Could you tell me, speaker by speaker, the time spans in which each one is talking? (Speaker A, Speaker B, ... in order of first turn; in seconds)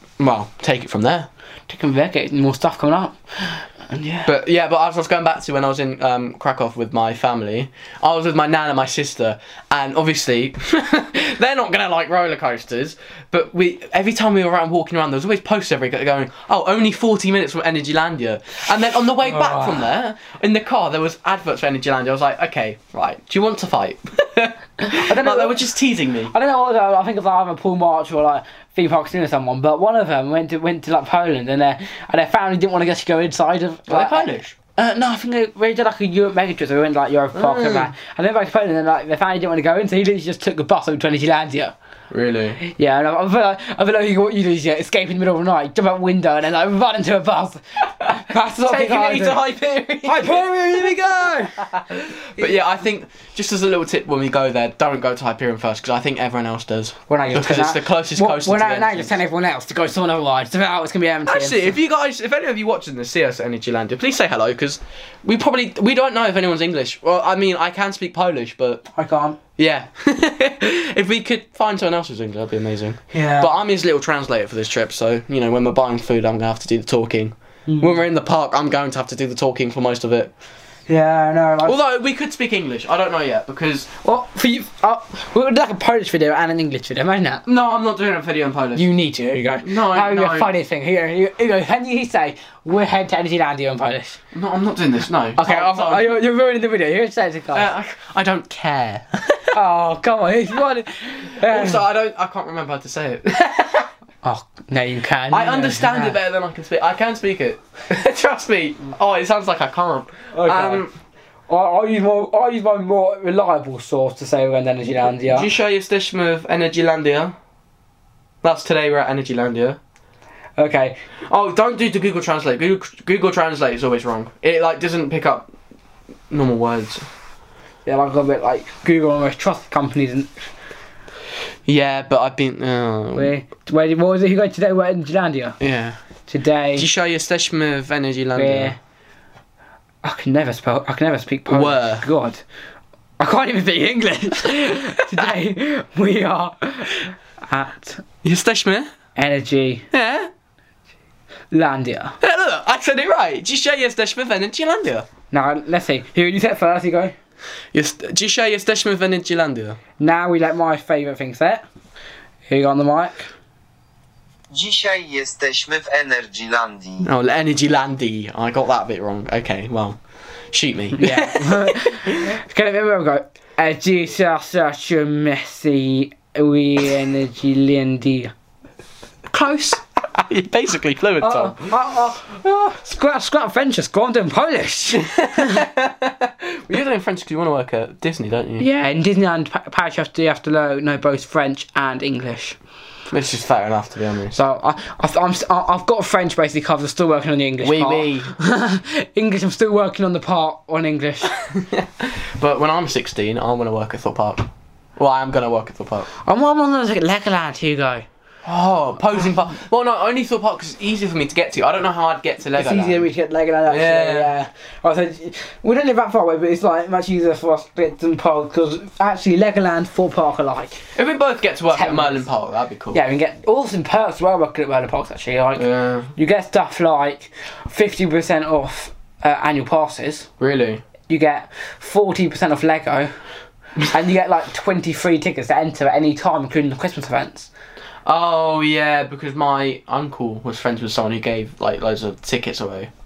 Speaker A: 0.2-1.3, 4.3-26.3, 33.9-34.5, 37.3-37.9, 42.1-42.6, 48.6-59.2, 61.3-68.8, 69.6-80.3, 81.6-83.9, 87.5-88.9, 89.6-90.5, 94.3-96.2, 97.5-99.5, 101.4-103.9, 105.3-110.9, 115.2-117.3, 118.4-119.8, 121.3-125.5, 126.3-127.0, 131.7-133.3, 135.6-136.0, 136.8-138.8, 141.5-142.1, 148.2-148.9, 149.9-150.3, 152.2-155.1, 157.7-159.8, 167.0-170.0, 170.5-172.3, 180.1-181.7, 185.0-188.7, 193.1-194.4, 197.6-198.3, 201.4-206.1, 208.4-213.1, 213.7-214.3, 221.0-223.0, 225.6-226.1, 230.4-230.8, 238.1-242.9
Speaker B: 1.7-4.3, 19.2-19.9, 24.8-25.7, 26.3-41.7, 42.6-49.5, 50.0-51.7, 57.1-61.8, 68.9-69.4, 73.1-73.5, 77.7-78.0, 80.9-81.8, 84.0-87.4, 88.8-94.2, 95.4-97.7, 99.5-101.8, 104.2-106.2, 110.3-110.8, 111.5-115.5, 120.6-121.0, 127.9-130.5, 133.1-135.6, 136.3-136.9, 138.3-138.8, 140.0-142.4, 143.2-148.1, 149.2-149.9, 151.5-152.2, 155.3-157.2, 160.0-161.6, 162.5-163.3, 171.0-178.3, 179.3-179.8, 181.2-185.7, 188.6-192.6, 194.3-201.3, 206.2-208.1, 212.6-220.8, 221.7-222.3, 222.9-230.3, 231.1-233.2, 233.9-237.5
Speaker C: 164.5-167.1